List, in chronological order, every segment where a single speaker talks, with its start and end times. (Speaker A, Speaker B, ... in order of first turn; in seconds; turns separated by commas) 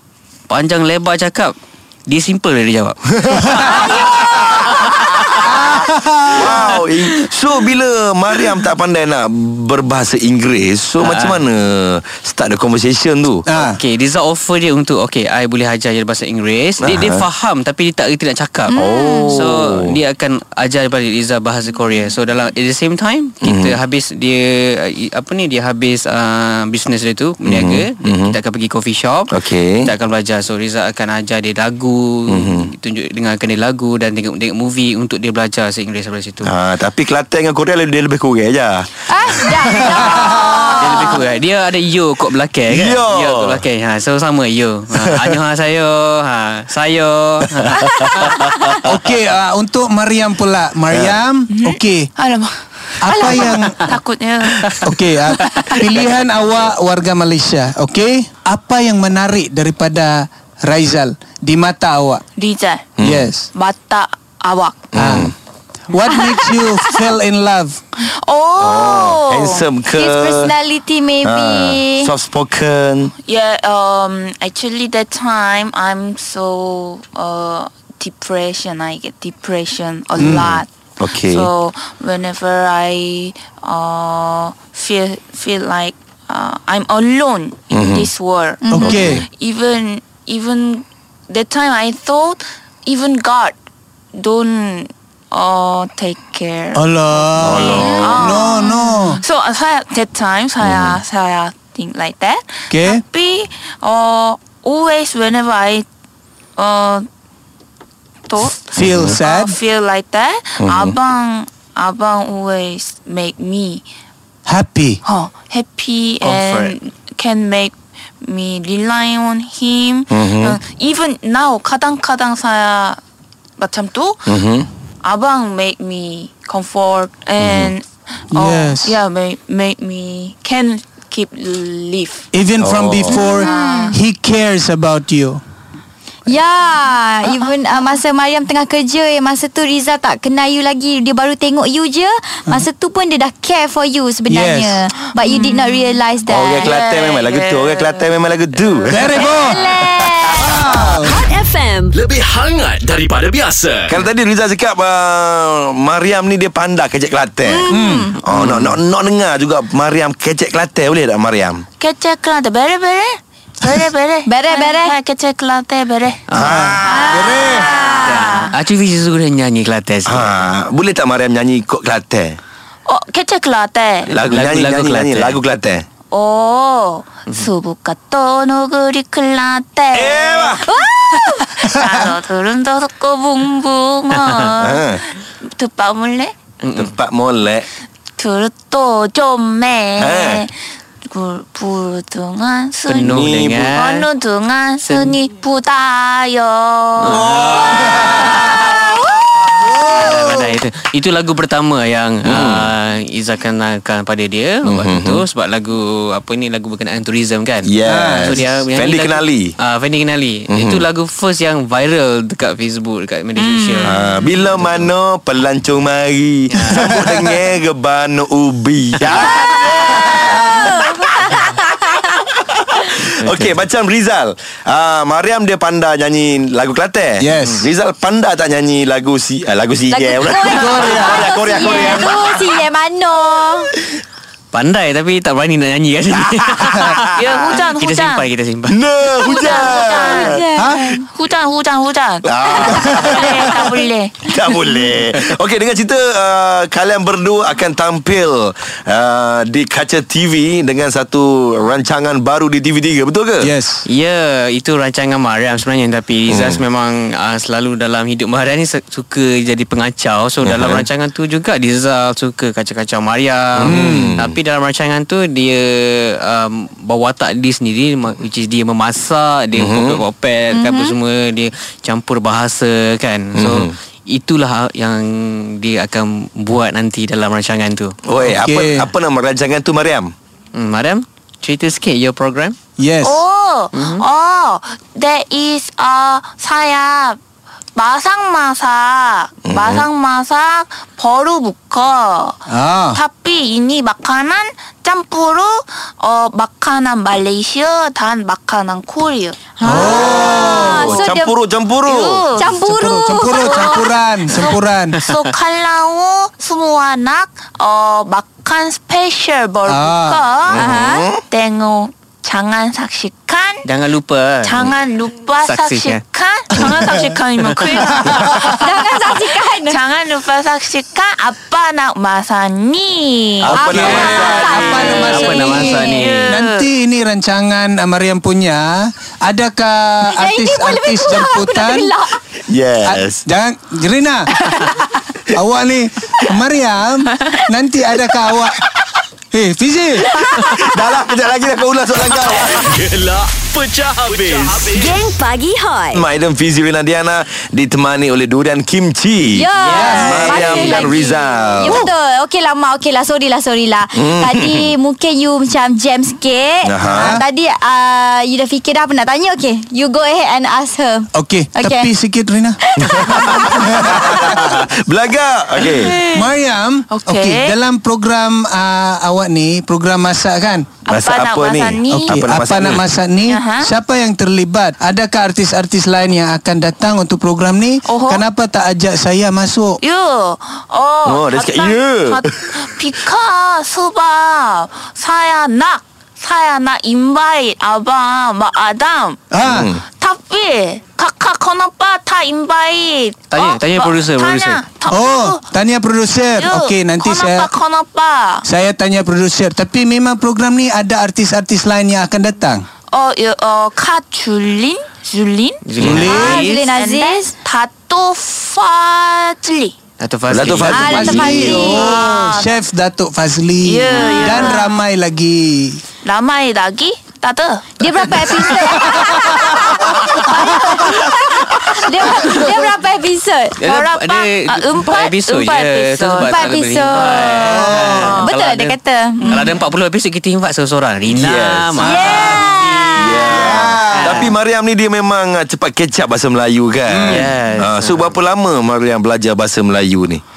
Speaker A: 0.5-1.5, Speaker A: 2.1-4.6, Speaker B: 3.2-5.5, Speaker C: 3.5-3.8, Speaker C: 5.4-6.8, Speaker B: 6.3-13.4, Speaker A: 11.0-11.4, Speaker C: 13.4-13.8, Speaker A: 13.6-36.5, Speaker B: 16.8-17.2, Speaker D: 18.7-19.4, Speaker B: 18.7-19.9, Speaker B: 23.4-23.8, Speaker B: 27.4-28.3, Speaker B: 29.3-29.9, Speaker B: 32.3-32.7, Speaker B: 36.4-40.4, Speaker D: 39.0-41.2, Speaker C: 40.0-40.6, Speaker A: 40.8-48.5, Speaker B: 42.7-43.6, Speaker B: 47.8-48.8, Speaker C: 48.8-52.1, Speaker B: 50.9-51.2, Speaker E: 51.5-52.5, Speaker C: 53.0-53.9, Speaker A: 53.2-53.6, Speaker E: 53.8-54.7, Speaker C: 54.8-62.2, Speaker A: 55.4-55.8, Speaker E: 62.4-62.9, Speaker B: 63.0-63.3, Speaker C: 63.0-63.5, Speaker E: 63.5-64.9, Speaker B: 64.9-65.3, Speaker C: 64.9-65.3, Speaker C: 65.9-67.8, Speaker D: 66.1-66.6, Speaker E: 68.0-69.6, Speaker B: 68.6-70.5, Speaker D: 69.9-72.1, Speaker B: 71.2-73.1, Speaker E: 73.2-93.5, Speaker C: 80.2-80.5, Speaker B: 80.2-81.5, Speaker B: 87.7-88.1, Speaker D: 88.6-89.0, Speaker C: 88.7-89.2, Speaker E: 94.1-96.8, Speaker C: 96.7-99.2, Speaker B: 97.4-98.3, Speaker E: 97.4-105.8, Speaker D: 97.8-99.2, Speaker B: 100.6-101.0, Speaker C: 102.7-103.0, Speaker E: 106.6-107.0, Speaker E: 108.3-113.8, Speaker C: 108.7-109.6, Speaker B: 108.9-109.2, Speaker B: 110.6-111.0, Speaker C: 114.5-115.0, Speaker E: 115.0-123.0, Speaker A: 116.2-116.7, Speaker B: 120.1-120.6, Speaker E: 123.6-124.3, Speaker B: 124.2-124.7, Speaker E: 125.0-132.2, Speaker B: 127.4-127.7, Speaker C: 128.3-129.0, Speaker C: 132.3-135.4, Speaker B: 132.6-133.4, Speaker D: 133.4-133.9, Speaker E: 133.4-133.9, Speaker D: 136.3-146.7, Speaker C: 144.3-144.8, Speaker E: 145.2-145.6, Speaker B: 146.2-150.9, Speaker E: 146.5-148.1, Speaker E: 148.6-149.0, Speaker C: 148.9-149.8, Speaker D: 149.1-151.0, Speaker C: 150.3-151.2, Speaker F: 151.0-151.9, Speaker G: 151.9-154.0, Speaker B: 153.9-161.6, Speaker D: 157.4-158.2, Speaker C: 157.7-158.1, Speaker A: 158.3-158.8, Speaker E: 161.8-166.3, Speaker D: 164.2-164.9, Speaker A: 166.3-166.7, Speaker B: 166.3-167.4, Speaker C: 166.4-167.8, Speaker D: 166.8-168.5, Speaker E: 166.8-168.5, Speaker A: 168.0-170.5, Speaker B: 170.1-172.4, Speaker E: 172.8-174.1, Speaker B: 174.1-175.8, Speaker A: 174.1-175.4, Speaker E: 176.1-180.7, Speaker B: 179.9-180.7, Speaker D: 180.6-181.6, Speaker E: 181.5-186.3, Speaker B: 184.6-185.1, Speaker A: 186.6-186.9, Speaker B: 186.7-187.7, Speaker E: 188.2-190.5, Speaker B: 190.0-190.4, Speaker E: 191.0-193.2, Speaker A: 192.9-194.1, Speaker B: 193.1-193.8, Speaker E: 193.7-197.2, Speaker A: 194.8-195.1, Speaker A: 197.0-198.4, Speaker B: 197.0-198.7, Speaker D: 198.7-199.2, Speaker A: 199.9-214.9, Speaker B: 202.2-202.6, Speaker B: 204.7-205.2, Speaker B: 207.7-209.5, Speaker C: 207.8-208.4, Speaker B: 210.5-210.8, Speaker D: 213.3-214.3, Speaker B: 213.8-221.5, Speaker A: 216.5-216.9, Speaker D: 219.1-222.1, Speaker B: 222.3-232.6, Speaker A: 223.1-223.5, Speaker C: 227.2-227.7, Speaker D: 229.9-233.7, Speaker C: 230.5-231.3, Speaker A: 234.5-238.8, Speaker B: 236.8-237.6, Speaker E: 237.1-238.2, Speaker B: 238.7-241.0, Speaker D: 239.1-241.0, Speaker E: 239.3-240.4, Speaker C: 240.5-240.9, Speaker E: 241.0-244.6, Speaker B: 242.2-243.7, Speaker C: 242.6-243.6, Speaker B: 244.2-253.5, Speaker C: 253.4-253.8, Speaker A: 253.8-277.9, Speaker B: 256.3-256.6, Speaker B: 260.4-260.8, Speaker B: 263.6-264.3, Speaker C: 263.6-264.2, Speaker B: 269.6-270.0, Speaker D: 270.5-270.9, Speaker B: 273.3-273.7, Speaker B: 278.1-280.1, Speaker C: 278.2-278.9, Speaker A: 280.5-282.6, Speaker C: 282.8-283.2, Speaker E: 283.0-287.2, Speaker A: 283.7-284.0, Speaker E: 287.8-292.4, Speaker B: 289.4-289.9, Speaker C: 292.5-293.0, Speaker E: 292.9-299.6, Speaker D: 299.6-301.4, Speaker C: 299.6-300.9, Speaker B: 299.8-302.2, Speaker E: 301.8-302.5, Speaker D: 302.3-303.9, Speaker C: 302.5-305.0, Speaker E: 303.2-310.7, Speaker A: 304.5-305.2, Speaker C: 309.7-310.2, Speaker B: 310.4-311.2, Speaker D: 310.5-311.1, Speaker E: 311.2-313.6, Speaker A: 313.6-314.7, Speaker E: 314.4-323.6, Speaker A: 315.4-316.0, Speaker A: 317.4-317.9, Speaker C: 317.9-318.4, Speaker B: 318.1-318.5, Speaker D: 318.5-319.8, Speaker B: 323.4-325.4, Speaker D: 323.5-326.2, Speaker C: 323.6-331.9, Speaker A: 324.7-326.5, Speaker D: 330.1-332.2, Speaker B: 332.5-333.2, Speaker C: 332.8-334.3, Speaker D: 334.5-334.7, Speaker C: 335.3-338.6, Speaker C: 339.3-340.1, Speaker B: 340.1-342.7, Speaker D: 340.2-341.0, Speaker G: 342.5-345.1, Speaker B: 344.1-344.5, Speaker F: 344.8-346.0, Speaker B: 345.9-351.9, Speaker D: 349.3-361.9, Speaker A: 349.6-350.9, Speaker C: 349.7-350.2, Speaker B: 353.9-354.7, Speaker B: 356.6-357.2, Speaker C: 356.8-357.2, Speaker C: 361.1-362.6, Speaker D: 362.6-364.6, Speaker B: 362.8-366.1, Speaker C: 363.4-364.6, Speaker C: 365.9-370.8, Speaker E: 366.9-367.6, Speaker E: 370.8-372.2, Speaker B: 370.9-372.9, Speaker C: 371.9-379.8, Speaker E: 373.2-373.7, Speaker E: 377.8-378.2, Speaker E: 379.8-389.3, Speaker B: 381.0-382.8, Speaker C: 389.3-389.7, Speaker B: 389.4-389.8, Speaker E: 389.8-395.4, Speaker A: 393.3-394.6, Speaker C: 394.9-397.5, Speaker E: 396.4-398.4, Speaker C: 398.4-402.6, Speaker E: 402.9-409.8, Speaker A: 405.6-406.6, Speaker C: 405.8-406.3, Speaker D: 405.9-407.3, Speaker A: 410.0-411.6, Speaker B: 410.3-411.4, Speaker D: 410.6-412.0, Speaker C: 410.9-415.8, Speaker E: 411.8-412.6, Speaker E: 413.6-414.6, Speaker D: 413.9-414.7, Speaker E: 416.0-419.0, Speaker D: 417.8-423.6, Speaker C: 418.9-419.2, Speaker A: 419.8-420.4, Speaker C: 420.3-420.7, Speaker A: 423.6-434.3, Speaker E: 423.6-426.3, Speaker D: 426.2-429.6, Speaker E: 426.9-427.3, Speaker C: 427.4-428.2, Speaker E: 427.9-428.3, Speaker E: 429.2-429.5, Speaker B: 431.1-432.4, Speaker D: 431.8-433.8, Speaker B: 432.9-440.2, Speaker C: 433.3-434.3, Speaker C: 436.9-437.3, Speaker A: 437.1-438.2